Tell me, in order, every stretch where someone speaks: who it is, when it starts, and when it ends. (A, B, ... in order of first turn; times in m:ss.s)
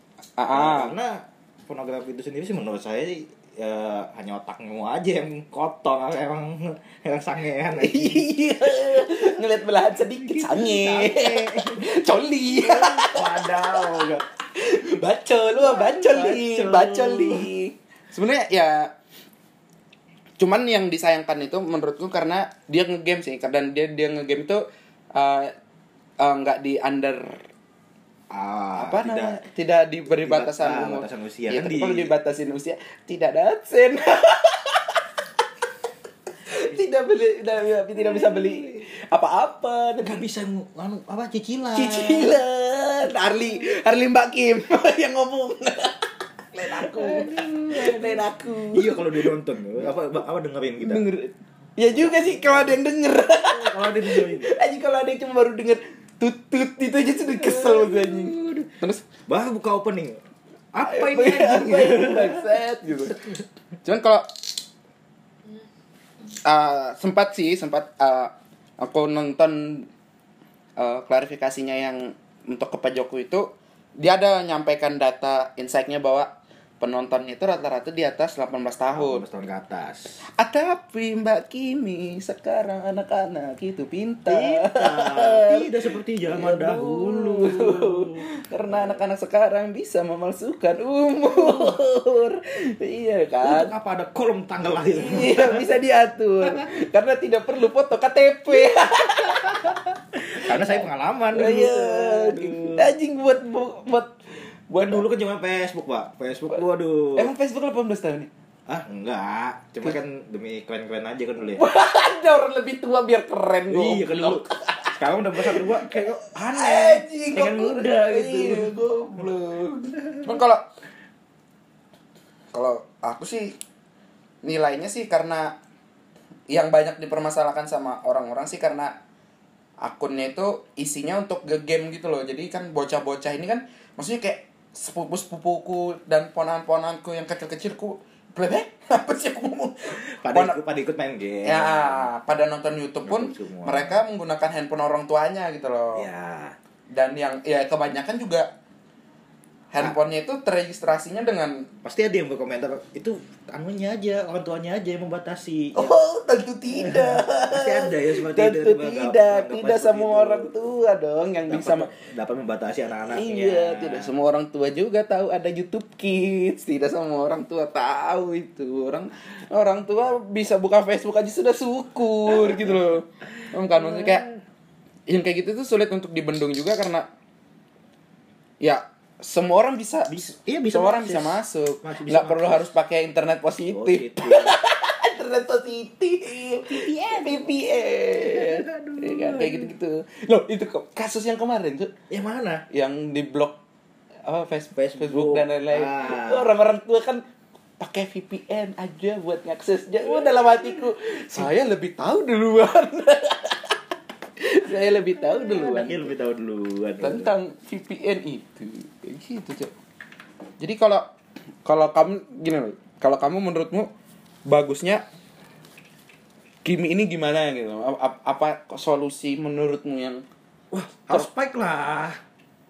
0:00.4-0:01.0 A
0:00.5-0:09.4 B
0:07.8-0:18.9 A
0:10.2-0:11.8 B
0:12.6-0:14.2 B
0:15.6-0:17.5 B
0:20.4-0:24.6 A
0:25.2-0:25.5 A
0:26.2-0:27.4 A
0:28.3-0:29.4 B
0:28.8-0:35.0 A
0:30.1-0:32.1 B
0:36.5-0:40.2 A
0:38.0-0:38.8 B
0:40.0-0:42.4 B
0:41.8-0:46.0 A
0:46.5-0:49.3 A
0:46.8-0:51.1 B
0:50.8-0:59.0 A
0:51.9-0:52.8 B
0:53.4-0:54.6 B
0:57.1-0:58.7 B
0:59.3-1:00.2 B
1:00.7-1:03.2 B
1:00.9-1:03.2 A
1:03.8-1:04.3 A
1:06.5-1:09.9 A
1:10.8-1:19.2 A
1:18.9-1:20.2 B
1:20.4-1:25.7 A
1:24.3-1:29.0 B
1:26.3-1:33.7 A
1:31.3-1:31.8 B
1:33.4-1:35.7 B
1:34.9-1:39.9 A
1:39.2-1:42.9 B
1:40.4-1:45.0 A
1:44.8-1:47.3 B
1:47.2-1:48.3 A
1:48.7-1:51.6 B
1:51.6-2:00.6 A
1:53.7-1:59.2 B
2:00.0-2:00.4 B
2:02.5-2:03.6 A
2:04.4-2:05.6 A
2:06.5-2:09.0 A
2:09.8-2:20.6 A
2:20.0-2:22.1 B
2:21.4-2:26.1 A
2:23.0-2:24.0 B
2:25.9-2:26.6 B
2:26.9-2:28.5 A
2:29.7-2:31.7 A
2:31.8-2:35.9 B
2:35.8-2:41.9 A
2:36.7-2:40.5 B
2:41.5-2:44.1 B
2:43.1-2:54.3 A
2:52.3-2:52.8 B
2:53.7-2:54.4 B
2:55.1-2:57.1 A
2:58.6-3:11.9 A
3:00.1-3:02.8 B
3:03.7-3:04.6 B
3:06.7-3:09.7 B
3:12.1-3:12.6 B
3:12.7-3:13.6 A
3:14.2-3:17.2 A
3:14.7-3:16.5 B
3:17.8-3:23.8 A
3:24.4-3:26.1 A
3:25.3-3:27.3 B
3:27.0-3:29.7 A
3:30.6-3:31.1 A
3:31.6-3:33.9 A
3:34.5-3:35.0 A
3:36.6-3:40.2 A
3:40.7-3:42.2 B